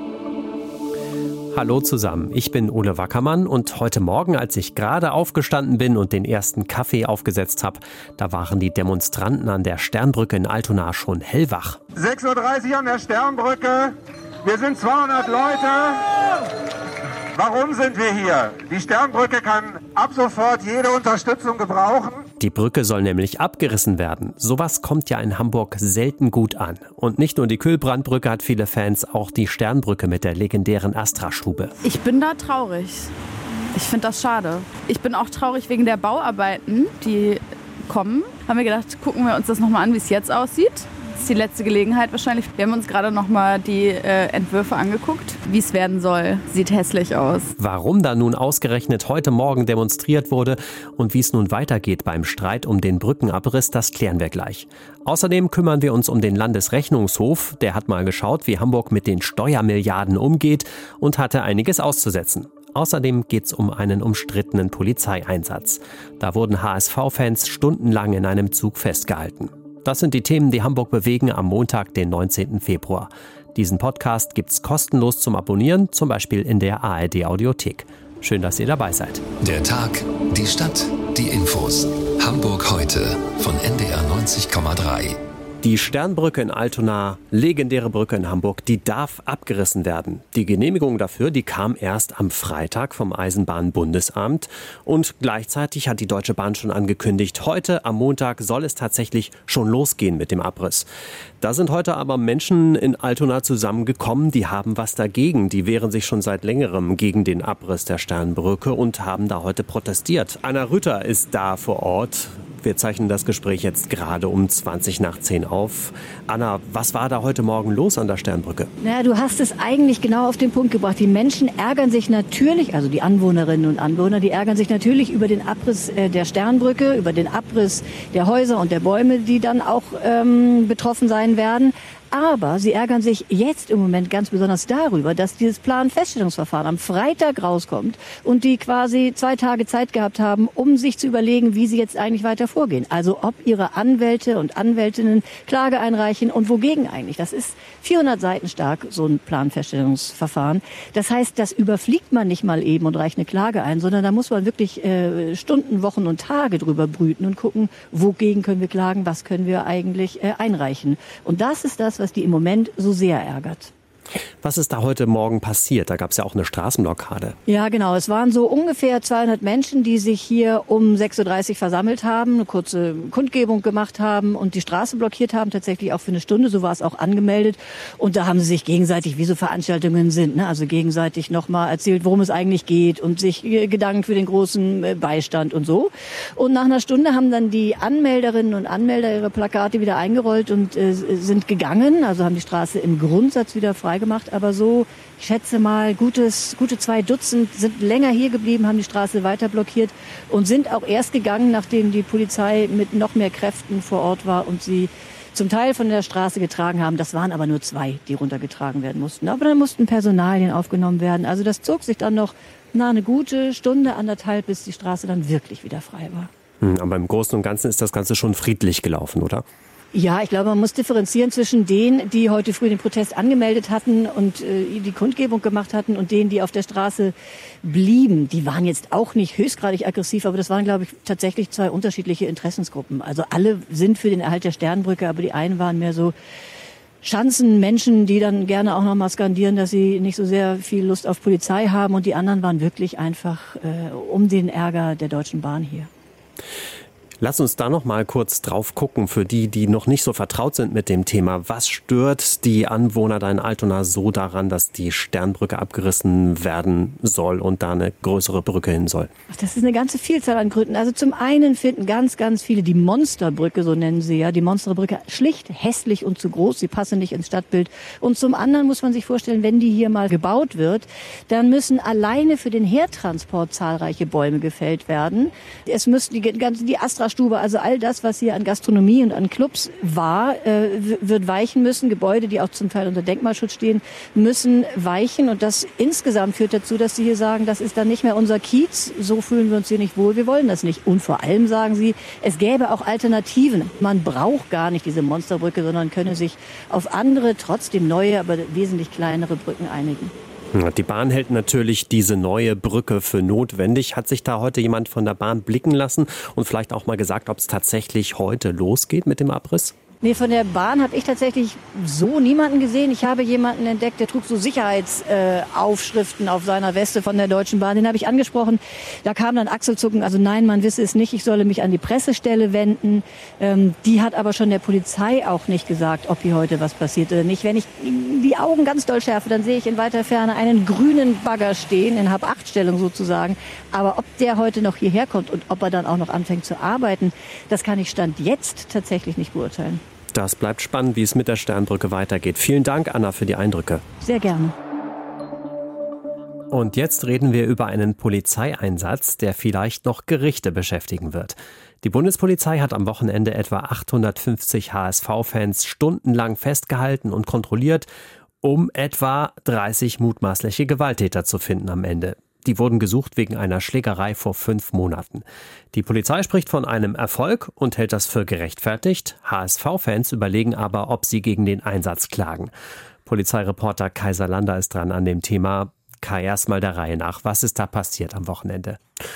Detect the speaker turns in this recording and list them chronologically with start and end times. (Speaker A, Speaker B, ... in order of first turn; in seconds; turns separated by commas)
Speaker A: 1.5-11.8, Speaker B: 12.3-13.9, Speaker B: 14.5-15.1, Speaker B: 17.6-22.1, Speaker A: 22.4-31.7, Speaker C: 31.8-33.1, Speaker C: 33.7-47.5, Speaker A: 47.6-79.2, Speaker D: 79.4-85.2, Speaker A: 85.6-100.9, Speaker A: 101.4-118.7, Speaker E: 118.8-163.7, Speaker A: 164.4-167.3, Speaker E: 167.5-216.3, Speaker A: 216.6-219.4, Speaker E: 219.9-236.1, Speaker E: 237.0-245.9, Speaker A: 247.2-259.1, Speaker E: 259.3-300.1, Speaker A: 300.5-309.7, Speaker E: 310.0-339.8, Speaker A: 340.1-343.8, Speaker E: 344.0-344.5, Speaker A: 346.5-357.9, Speaker A: 358.4-372.5, Speaker A: 373.1-378.8